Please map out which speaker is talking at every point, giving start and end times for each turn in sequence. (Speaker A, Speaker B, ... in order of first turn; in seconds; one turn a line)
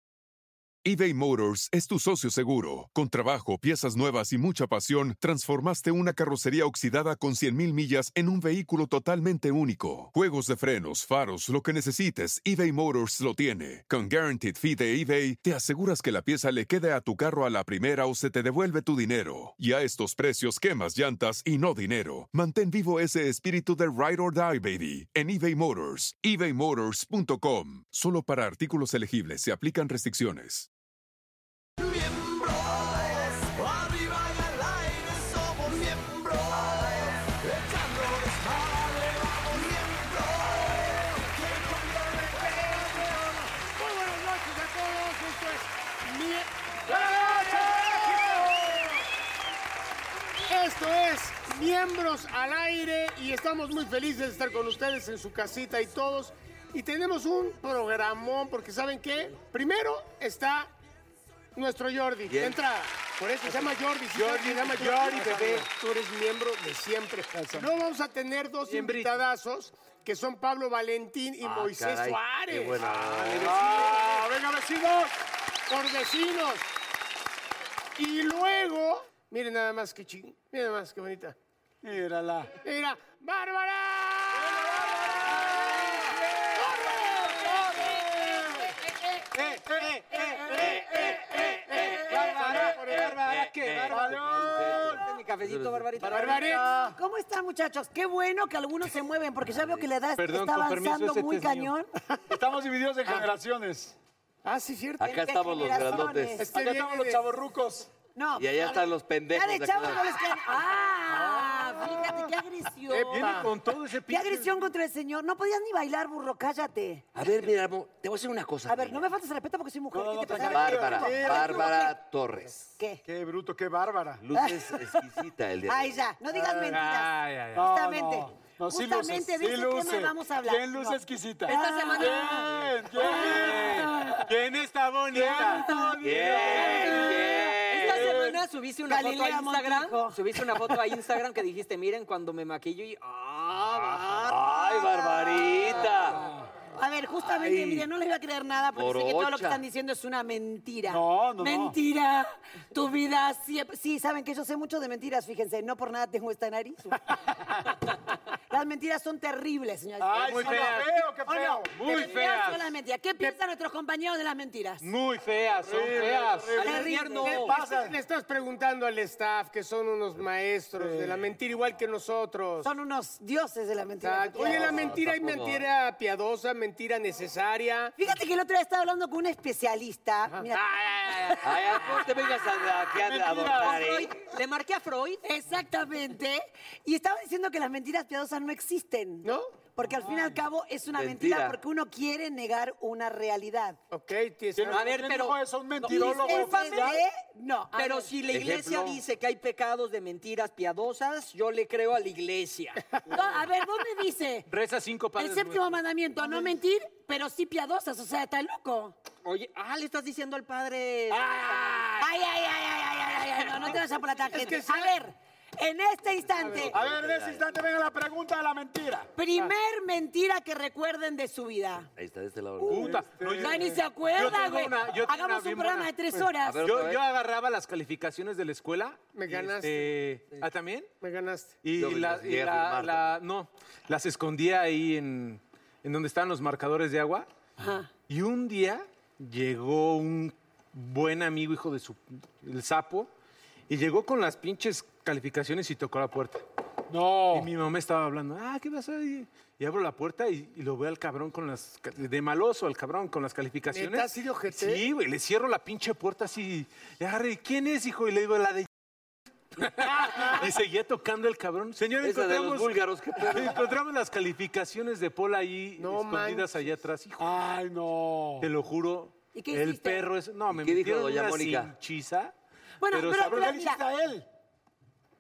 Speaker A: 0.8-30.7
Speaker B: 31.8-41.6
Speaker C: 41.5-48.7
Speaker D: 46.9-49.0
Speaker C: 50.5-60.7
Speaker C: 61.6-72.8
Speaker E: 62.3-62.6
Speaker F: 64.2-65.4
Speaker D: 64.5-65.7
Speaker D: 67.3-67.7
Speaker F: 68.7-69.2
Speaker E: 71.4-73.8
Speaker F: 72.8-74.3
Speaker D: 73.4-75.1
Speaker C: 75.7-76.7
Speaker C: 78.0-81.4
Speaker D: 81.8-82.6
Speaker C: 82.6-85.8
Speaker D: 84.4-86.0
Speaker C: 86.5-87.4
Speaker D: 87.0-88.7
Speaker F: 89.3-94.6
Speaker D: 89.6-92.7
Speaker E: 90.5-96.0
Speaker D: 93.9-95.1
Speaker G: 94.9-96.6
Speaker D: 96.0-97.0
Speaker C: 96.1-96.7
Speaker H: 96.2-101.9
Speaker E: 99.5-99.8
Speaker F: 100.2-101.8
Speaker D: 102.3-104.0
Speaker C: 104.4-105.2
Speaker E: 105.0-106.5
Speaker H: 105.0-106.4
Speaker C: 106.4-107.3
Speaker D: 106.5-107.9
Speaker H: 108.2-113.3
Speaker E: 108.4-110.2
Speaker G: 111.3-111.9
Speaker C: 112.9-113.5
Speaker F: 113.1-114.7
Speaker H: 114.1-117.1
Speaker E: 117.2-119.0
Speaker H: 118.7-122.0
Speaker D: 119.9-121.9
Speaker E: 120.4-122.7
Speaker D: 123.1-124.2
Speaker E: 124.2-126.0
Speaker H: 124.3-125.0
Speaker H: 125.7-132.4
Speaker D: 126.3-126.8
Speaker F: 126.6-127.7
Speaker D: 127.5-134.2
Speaker G: 131.5-132.5
Speaker F: 133.0-136.7
Speaker H: 133.2-133.5
Speaker D: 135.1-137.3
Speaker E: 136.0-138.2
Speaker G: 136.6-145.1
Speaker D: 137.8-138.4
Speaker H: 138.9-140.9
Speaker E: 144.2-146.2
Speaker H: 144.6-145.8
Speaker D: 146.1-146.5
Speaker H: 146.8-157.6
Speaker D: 147.4-147.8
Speaker E: 148.8-149.6
Speaker D: 150.9-151.8
Speaker H: 158.5-164.8
Speaker D: 160.0-161.8
Speaker F: 160.2-160.9
Speaker F: 161.7-162.7
Speaker F: 164.8-166.8
Speaker D: 165.7-168.0
Speaker G: 166.6-167.6
Speaker H: 166.6-167.4
Speaker C: 167.2-172.7
Speaker D: 170.7-171.2
Speaker H: 172.6-174.9
Speaker C: 174.0-178.0
Speaker E: 174.4-175.7
Speaker H: 178.0-181.4
Speaker C: 180.3-181.2
Speaker G: 181.1-182.3
Speaker E: 181.4-184.1
Speaker D: 183.0-183.8
Speaker G: 183.4-185.2
Speaker H: 185.2-193.8
Speaker C: 189.2-189.6
Speaker D: 190.0-190.4
Speaker E: 190.9-191.6
Speaker C: 193.9-195.0
Speaker D: 194.6-197.0
Speaker G: 194.7-197.0
Speaker H: 195.8-198.2
Speaker G: 197.8-203.0
Speaker E: 198.3-199.0
Speaker H: 203.1-204.5
Speaker F: 204.5-205.8
Speaker H: 205.2-209.0
Speaker C: 206.2-206.6
Speaker G: 209.2-212.1
Speaker H: 212.0-216.8
Speaker G: 213.2-213.8
Speaker C: 214.4-215.0
Speaker C: 216.4-216.7
Speaker E: 216.4-217.4
Speaker D: 216.6-219.1
Speaker H: 219.2-221.9
Speaker E: 222.0-222.9
Speaker F: 222.7-230.9
Speaker D: 222.7-223.8
Speaker H: 222.7-226.6
Speaker E: 226.4-227.0
Speaker C: 229.1-229.9
Speaker C: 231.0-231.6
Speaker F: 231.6-237.3
Speaker E: 231.7-233.2
Speaker H: 237.6-237.9
Speaker F: 238.1-243.1
Speaker F: 243.7-246.4
Speaker D: 246.9-247.5
Speaker F: 247.3-258.7
Speaker C: 253.7-254.8
Speaker F: 259.6-267.5
Speaker E: 262.0-263.8
Speaker C: 265.8-266.8
Speaker D: 267.2-268.5
Speaker F: 268.4-272.3
Speaker H: 269.4-270.1
Speaker E: 270.5-271.7
Speaker H: 272.8-273.8
Speaker F: 272.9-273.6
Speaker D: 273.2-274.2